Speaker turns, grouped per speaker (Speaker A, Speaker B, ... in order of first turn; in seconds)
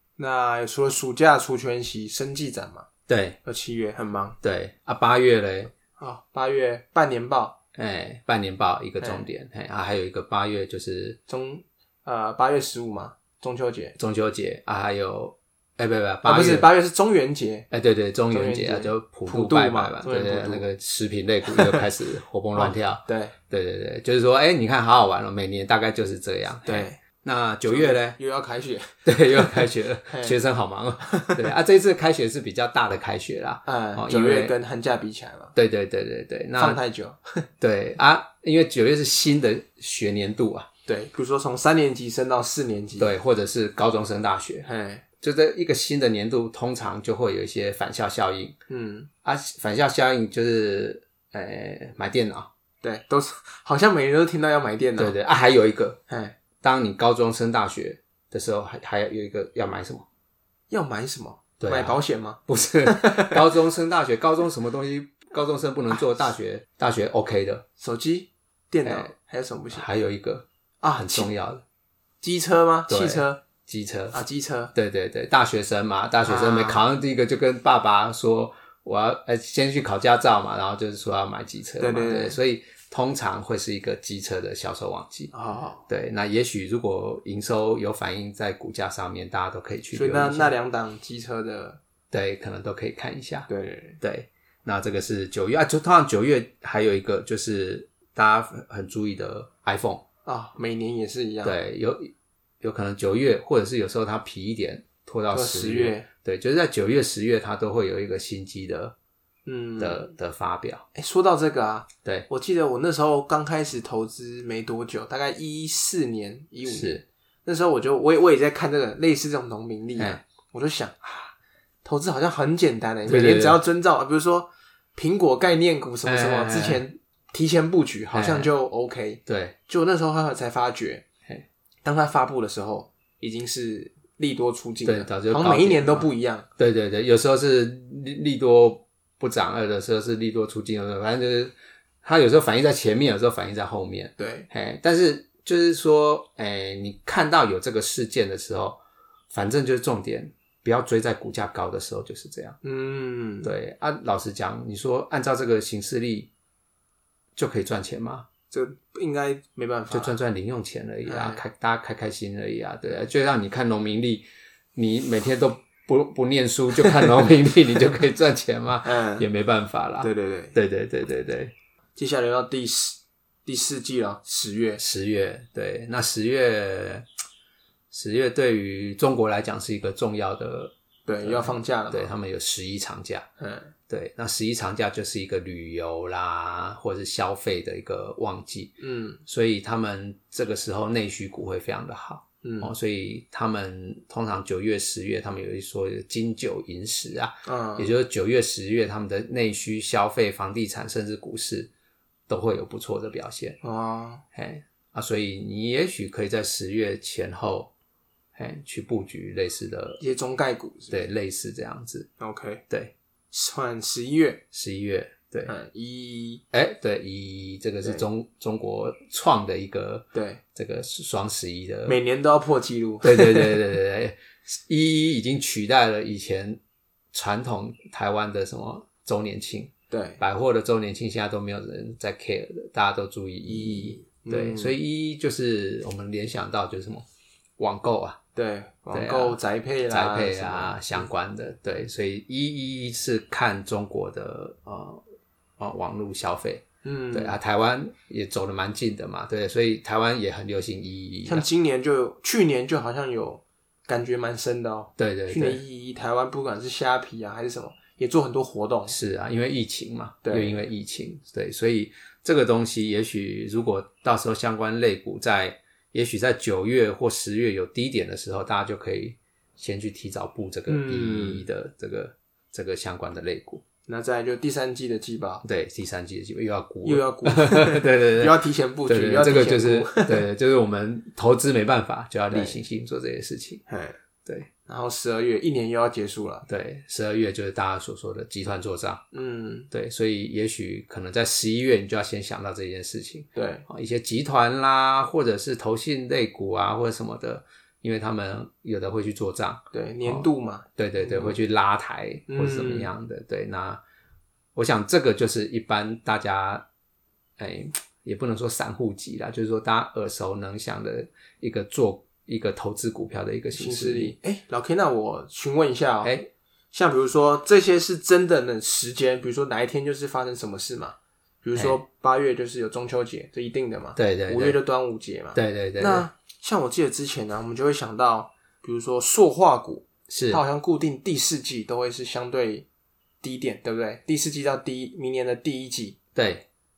Speaker A: 0.2-2.9, 3.4-4.4, 6.0-7.6, 9.0-9.2, 11.3-14.0, 16.2-17.7, 18.3-20.6, 21.5-21.8, 22.5-23.3, 26.6-27.0, 27.6-30.4, 31.0-31.4, 33.6-35.5, 36.6-37.5, 40.9-43.1, 44.6-45.0, 48.7-49.1, 52.8-55.1, 56.1-56.3, 60.7-63.5, 67.8-69.8, 70.8-71.3, 72.2-73.4, 74.1-74.7, 76.2-76.8, 81.8-82.4, 85.3-85.8, 89.9-91.8, 93.5-94.0, 100.2-101.5, 105.3-106.1, 109.5-110.1, 110.9-121.3, 121.8-131.0, 131.8-136.5, 144.2-144.5, 152.6-153.5, 158.5-160.2, 161.1-161.4, 168.8-169.3, 170.0-170.6, 171.9-174.8, 181.1-182.1, 183.4-183.7, 188.8-189.2, 192.4-192.7, 197.4-197.9, 203.6-204.2, 210.0-211.0, 212.2-212.6, 213.3-214.4, 215.4-216.4, 220.1-220.4, 221.8-223.6, 229.9-230.2, 233.4-234.8, 238.3-241.1, 246.8-247.4, 251.2-258.9, 260.2-260.6, 270.7-271.4, 273.9-275.4, 276.8-280.3, 282.3-282.6, 283.7-284.0, 284.6-286.4, 289.1-289.7, 293.3-293.6, 299.7-301.4, 302.3-302.9, 313.5-316.1, 316.7-332.6, 333.2-336.0
Speaker B: 3.1-3.4, 4.4-5.7, 7.8-11.2, 14.0-16.7, 17.7-28.2, 29.1-34.5, 35.5-36.8, 37.6-40.7, 43.0-44.6, 45.2-48.6, 49.2-52.5, 55.0-56.0, 56.6-60.0, 61.6-67.6, 68.8-69.1, 69.7-71.6, 72.9-74.2, 74.7-85.3, 85.9-90.5, 92.1-93.5, 94.0-100.0, 101.4-108.9, 109.8-110.8, 116.7-117.0, 123.1-123.6, 126.0-126.8, 128.1-128.5, 129.2-129.6, 134.8-148.8, 149.3-152.6, 153.4-156.3, 157.3-158.3, 159.9-171.5, 174.8-177.1, 177.9-183.2, 183.9-201.7, 202.3-203.6, 204.3-207.7, 208.3-210.0, 210.9-212.1, 214.5-215.5, 216.5-222.0, 223.0-226.6, 227.1-237.1, 237.6-238.2, 238.9-239.4, 239.9-245.0, 245.6-251.4, 255.0-255.6, 258.9-273.6, 275.4-283.6, 286.5-289.0, 289.7-303.8, 304.5-306.6, 307.4-314.1, 316.0-316.3, 323.9-324.6, 325.3-326.1, 330.1-330.4, 336.1-336.4